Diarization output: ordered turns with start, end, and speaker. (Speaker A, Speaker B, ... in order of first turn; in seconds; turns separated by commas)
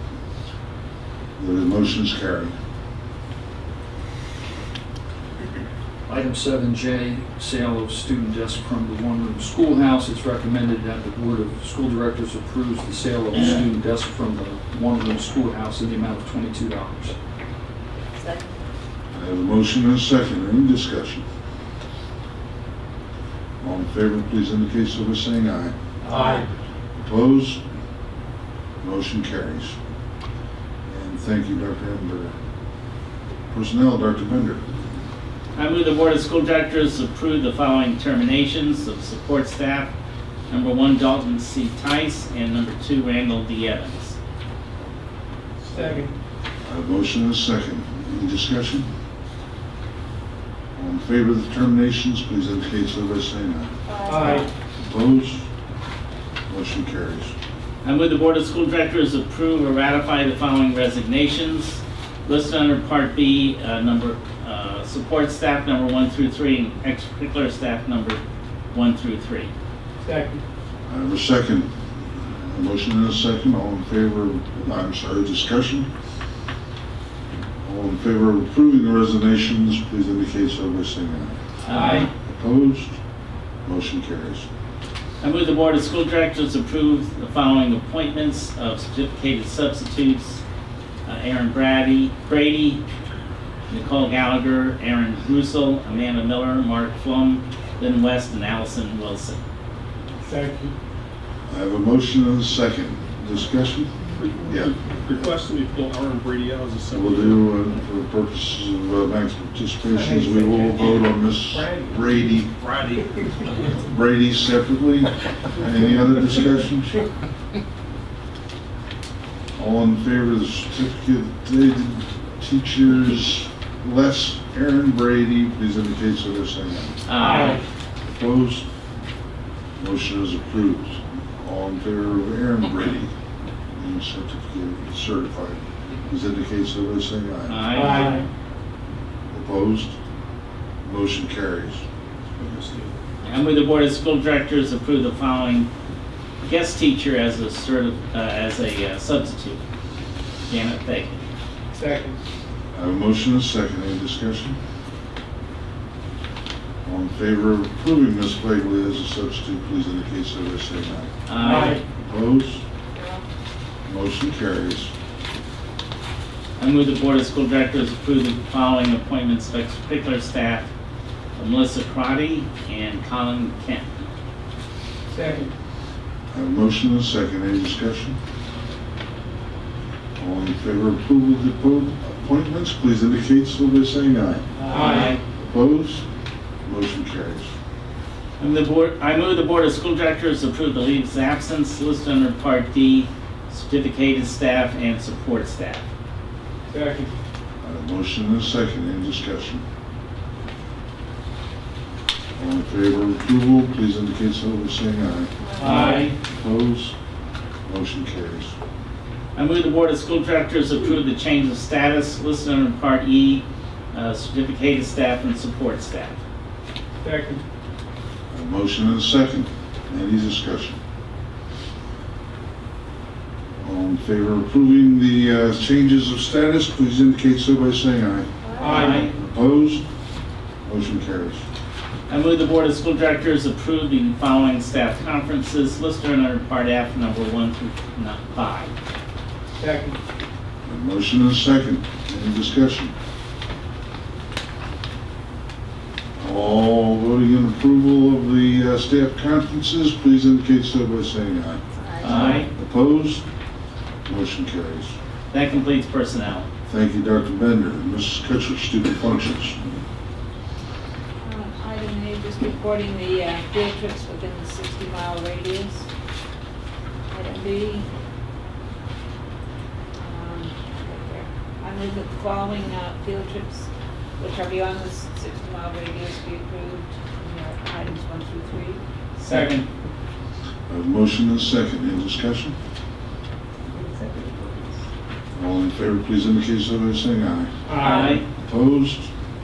Speaker A: 1.4-2.5, Speaker B: 6.1-17.2, Speaker C: 13.3-13.6, Speaker D: 18.2-18.6, Speaker A: 19.1-21.2, Speaker A: 23.6-25.8, Speaker D: 26.1-26.4, Speaker E: 26.1-26.4, Speaker A: 27.0-27.6, Speaker A: 28.8-29.8, Speaker A: 30.9-32.4, Speaker A: 33.5-34.6, Speaker C: 35.5-39.9, Speaker C: 40.5-44.2, Speaker E: 45.7-46.1, Speaker A: 46.6-48.9, Speaker A: 50.8-53.7, Speaker D: 53.9-54.5, Speaker E: 54.1-54.5, Speaker A: 54.8-55.5, Speaker A: 56.5-57.3, Speaker C: 57.8-68.2, Speaker C: 68.7-69.5, Speaker E: 70.0-70.4, Speaker A: 70.9-75.9, Speaker A: 77.6-81.4, Speaker C: 81.7-82.1, Speaker E: 81.7-82.1, Speaker A: 81.9-83.0, Speaker A: 83.7-84.5, Speaker C: 85.2-90.4, Speaker C: 91.1-92.8, Speaker C: 93.7-99.4, Speaker E: 100.2-100.7, Speaker A: 101.5-104.8, Speaker F: 104.2-107.5, Speaker A: 106.9-112.5, Speaker E: 109.9-110.8, Speaker E: 111.5-112.0, Speaker F: 112.6-113.0, Speaker A: 113.7-117.1, Speaker A: 119.6-127.5, Speaker C: 127.1-127.6, Speaker E: 127.2-127.6, Speaker A: 128.1-128.7, Speaker A: 129.8-133.1, Speaker A: 133.7-138.1, Speaker C: 137.5-138.3, Speaker E: 137.8-138.3, Speaker A: 139.3-140.0, Speaker A: 140.8-141.8, Speaker F: 142.6-142.8, Speaker C: 143.2-145.7, Speaker C: 146.4-149.6, Speaker C: 150.5-151.2, Speaker E: 151.7-152.2, Speaker A: 152.7-154.6, Speaker A: 156.8-162.6, Speaker C: 161.3-161.8, Speaker E: 161.4-161.8, Speaker D: 162.9-163.2, Speaker A: 163.9-164.9, Speaker C: 166.6-170.7, Speaker C: 171.4-174.0, Speaker E: 175.1-175.5, Speaker A: 176.3-178.2, Speaker A: 180.2-186.1, Speaker E: 184.6-185.2, Speaker C: 184.7-185.2, Speaker A: 186.7-187.5, Speaker C: 188.4-195.8, Speaker E: 196.7-197.1, Speaker A: 197.6-199.6, Speaker A: 202.4-207.0, Speaker D: 205.6-206.0, Speaker E: 205.6-206.1, Speaker C: 205.6-206.1, Speaker A: 207.7-208.6, Speaker C: 209.3-216.2, Speaker E: 217.0-217.4, Speaker A: 218.3-220.8, Speaker A: 223.6-229.9, Speaker D: 228.4-229.1, Speaker E: 228.6-229.0, Speaker C: 228.6-229.1, Speaker A: 230.6-231.4, Speaker C: 232.1-238.7, Speaker E: 239.6-240.0, Speaker A: 240.7-242.9, Speaker A: 246.2-253.2, Speaker D: 251.8-252.5, Speaker C: 252.0-252.5, Speaker A: 254.1-254.9, Speaker C: 255.3-256.5, Speaker A: 256.7-259.6, Speaker D: 261.2-265.9, Speaker D: 267.1-267.9, Speaker D: 270.0-278.8, Speaker C: 279.2-279.6, Speaker E: 279.3-279.7, Speaker A: 280.7-282.6, Speaker A: 285.4-289.1, Speaker E: 287.7-288.1, Speaker C: 287.8-288.2, Speaker D: 287.8-288.2